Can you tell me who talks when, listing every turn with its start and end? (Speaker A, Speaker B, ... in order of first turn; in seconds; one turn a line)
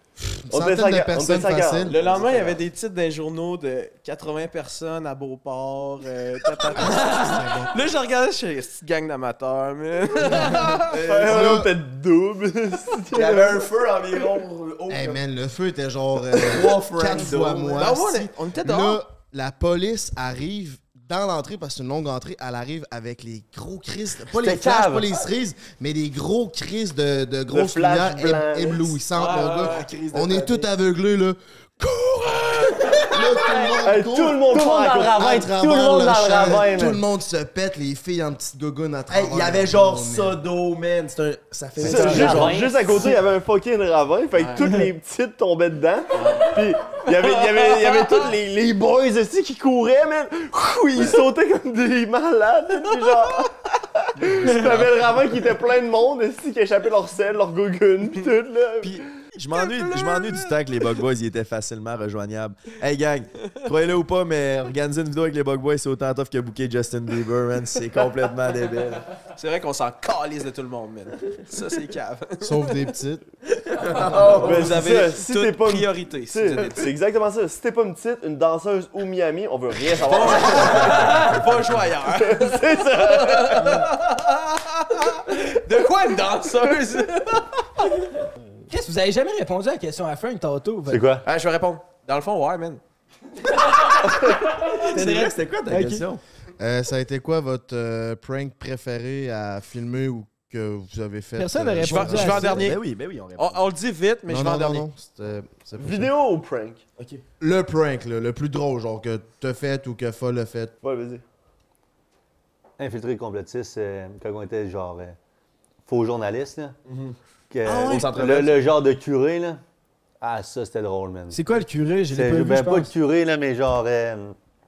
Speaker A: 0.2-1.9
Speaker B: 0.5-2.6
Speaker C: 1.9-10.9
Speaker A: 6.8-7.7
Speaker A: 10.3-11.7
Speaker B: 10.8-13.7
Speaker D: 10.9-11.5
Speaker D: 13.1-15.2
Speaker A: 14.9-34.5
Speaker D: 16.4-17.8
Speaker C: 17.2-19.0
Speaker E: 24.3-25.1
Speaker B: 27.5-29.0
Speaker C: 29.1-29.9
Speaker D: 29.3-30.7
Speaker E: 33.5-33.7
Speaker B: 33.8-35.2
Speaker E: 34.5-37.0
Speaker A: 35.1-40.4
Speaker D: 39.1-42.6
Speaker E: 41.8-43.1
Speaker B: 41.8-59.0
Speaker C: 44.4-44.7
Speaker C: 46.1-48.3
Speaker C: 53.0-53.3
Speaker D: 54.2-55.1
Speaker D: 58.8-69.0
Speaker C: 59.5-60.8
Speaker C: 69.2-72.9
Speaker A: 72.4-73.2
Speaker D: 73.7-74.9
Speaker C: 74.0-76.9
Speaker B: 74.3-81.3
Speaker C: 80.1-87.9
Speaker D: 80.5-81.1
Speaker F: 80.7-81.5
Speaker B: 82.1-83.9
Speaker F: 88.7-91.1
Speaker E: 90.9-91.2
Speaker C: 91.2-92.8
Speaker F: 93.9-96.0
Speaker D: 94.3-96.2
Speaker A: 96.6-102.6
Speaker F: 101.4-102.6
Speaker C: 101.8-102.8
Speaker D: 102.3-103.7
Speaker C: 103.4-104.8
Speaker A: 104.3-106.1
Speaker B: 105.8-106.8
Speaker D: 107.0-107.2
Speaker A: 107.4-110.7
Speaker B: 110.8-111.2
Speaker E: 112.8-115.2
Speaker E: 115.9-116.7
Speaker D: 116.9-117.2
Speaker E: 117.5-119.6
Speaker C: 117.7-118.1
Speaker D: 117.8-118.6
Speaker E: 120.2-121.4
Speaker F: 121.3-122.9
Speaker E: 122.1-124.3